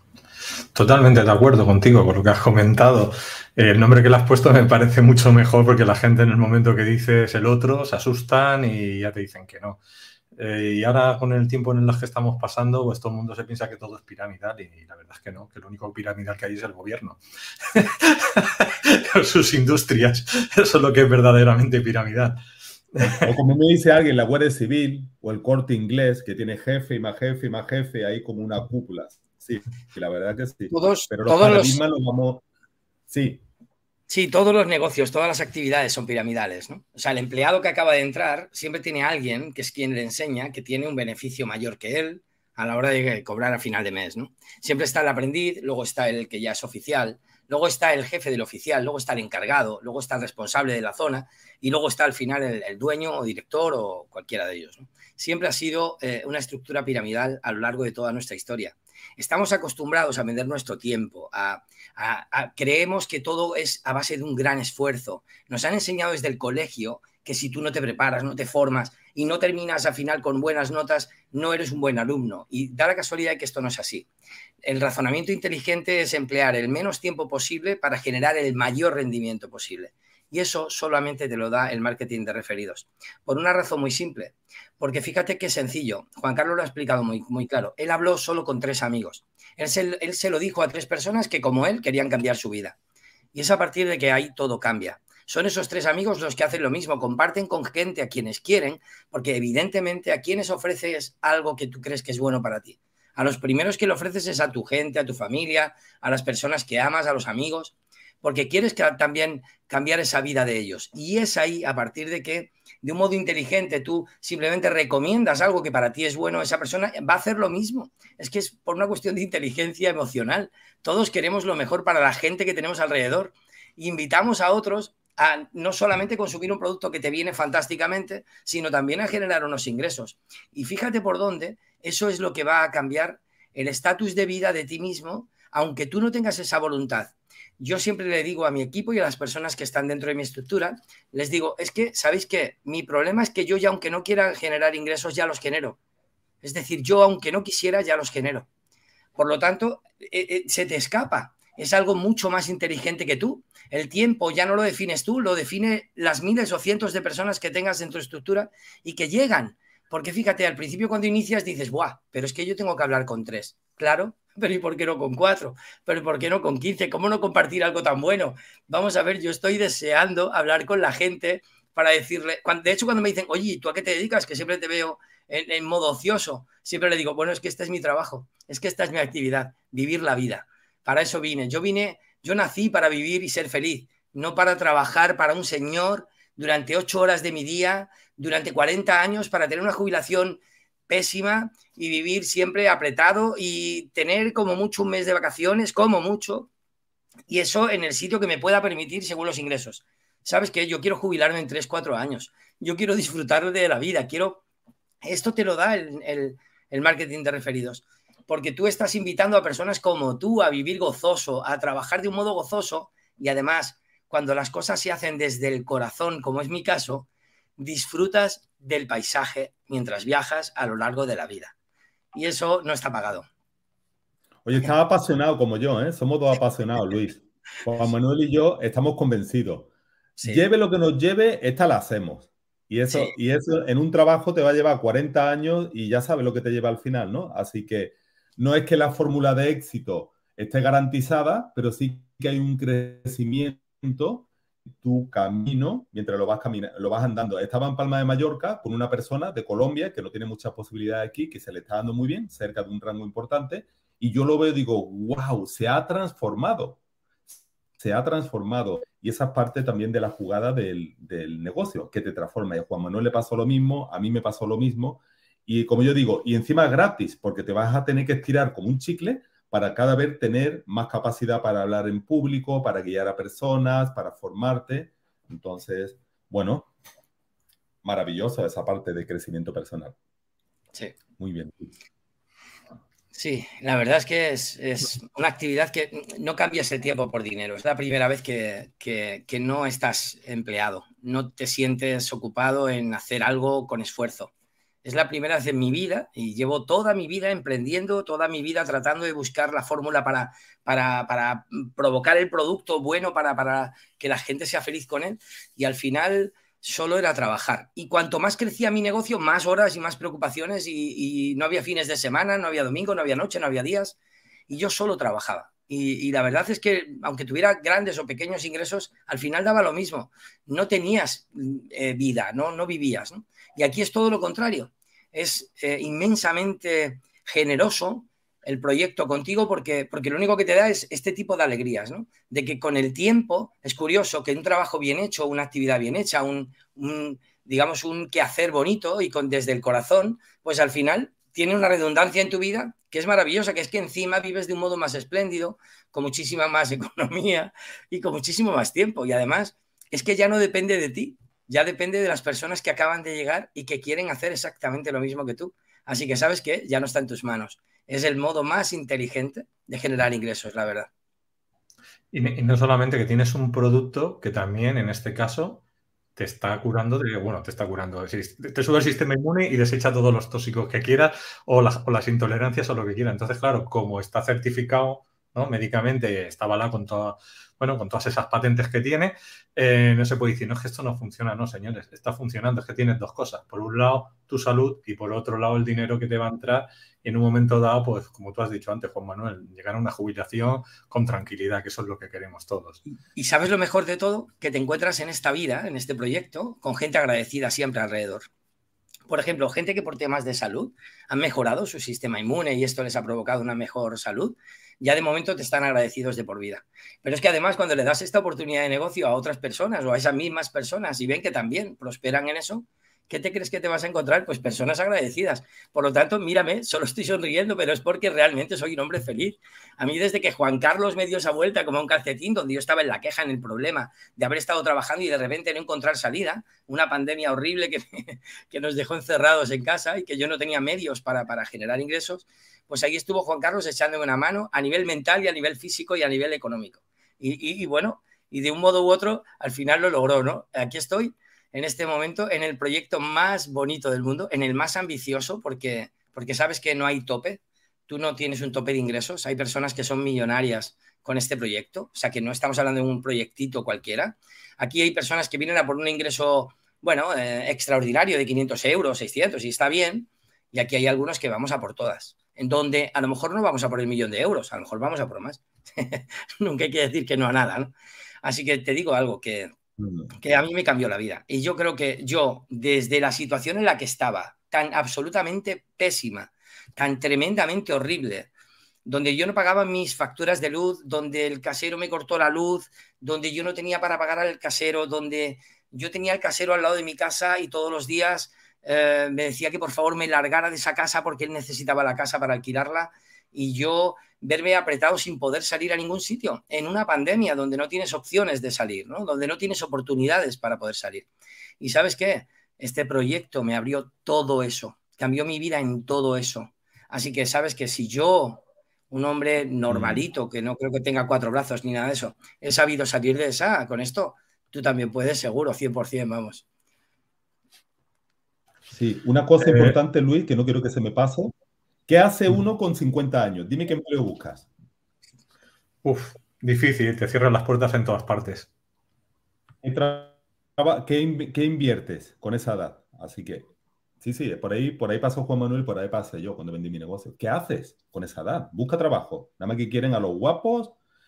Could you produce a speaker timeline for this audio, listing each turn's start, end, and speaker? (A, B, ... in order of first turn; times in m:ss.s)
0:00.8-0:09.8 A
0:10.4-0:22.4 A
0:22.9-0:23.3 A
0:23.0-0:32.4 B
0:30.7-0:31.8 C
0:33.1-0:33.4 B
0:34.1-1:14.1 C
1:14.6-1:32.8 C
1:33.3-2:25.8 C
2:26.4-2:28.5 C
2:29.2-3:16.5 C
3:17.3-3:24.4 C
3:25.0-3:41.5 C
3:42.1-3:43.3 C
3:44.4-3:49.7 B
3:50.2-3:50.4 C
3:50.2-4:04.3 B
3:52.9-3:53.1 C
4:04.8-4:16.8 B
4:17.8-4:36.7 B
4:37.8-4:39.9 B
4:41.2-4:41.7 B
4:43.1-4:54.3 C
4:54.8-5:14.0 C
5:14.5-6:00.9 C
6:02.1-6:05.6 A
6:06.2-6:32.8 A
6:33.1-6:38.3 C
6:39.1-7:49.5 C
7:49.8-7:50.1 B
7:50.2-7:58.3 C
7:58.8-8:21.1 C
8:21.6-8:36.4 C
8:29.7-8:30.0 B
8:38.7-8:41.3 B
8:39.4-8:39.8 A
8:41.9-8:44.5 B
8:45.8-8:48.5 A
8:49.6-8:53.5 B
8:54.0-9:00.8 B